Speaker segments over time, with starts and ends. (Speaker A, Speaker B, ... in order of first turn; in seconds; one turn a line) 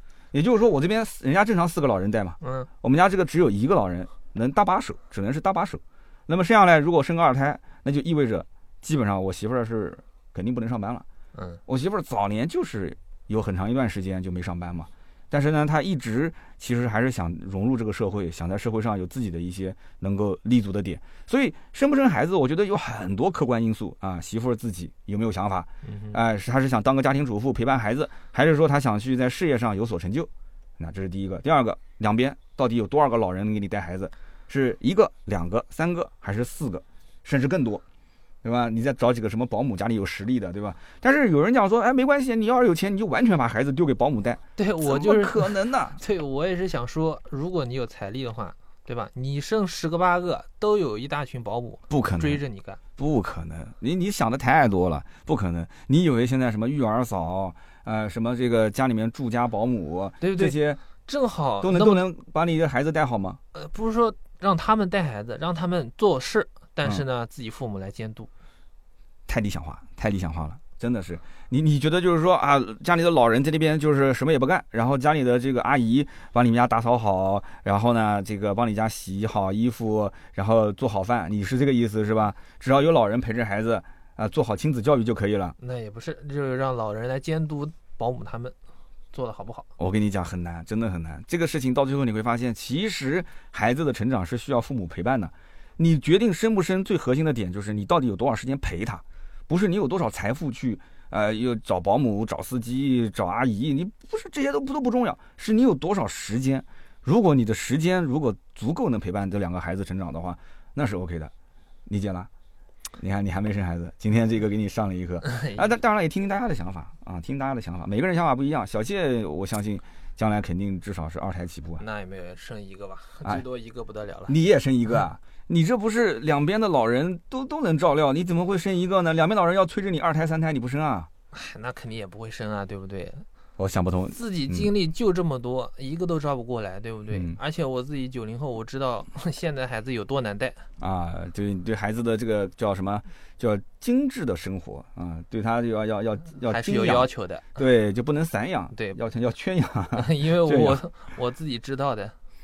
Speaker A: 0.3-11.0
Speaker B: 2.4-2.7
Speaker B: 11.3-11.6
Speaker A: 11.7-37.8
Speaker B: 25.8-26.2
Speaker A: 38.4-46.0
Speaker B: 44.6-52.8
Speaker A: 51.9-52.4
Speaker A: 53.0-60.8
Speaker B: 60.2-62.0
Speaker A: 61.6-63.4
Speaker B: 63.5-68.3
Speaker A: 69.3-85.5
Speaker B: 85.6-88.5
Speaker B: 89.1-89.7
Speaker A: 89.8-111.3
Speaker A: 111.8-112.3
Speaker A: 113.0-121.8
Speaker B: 115.2-115.7
Speaker B: 121.8-124.3
Speaker A: 124.3-131.1
Speaker B: 131.3-133.2
Speaker A: 133.6-134.7
Speaker B: 134.1-140.6
Speaker A: 137.1-137.4
Speaker A: 140.8-150.8
Speaker B: 146.4-147.5
Speaker B: 149.9-152.1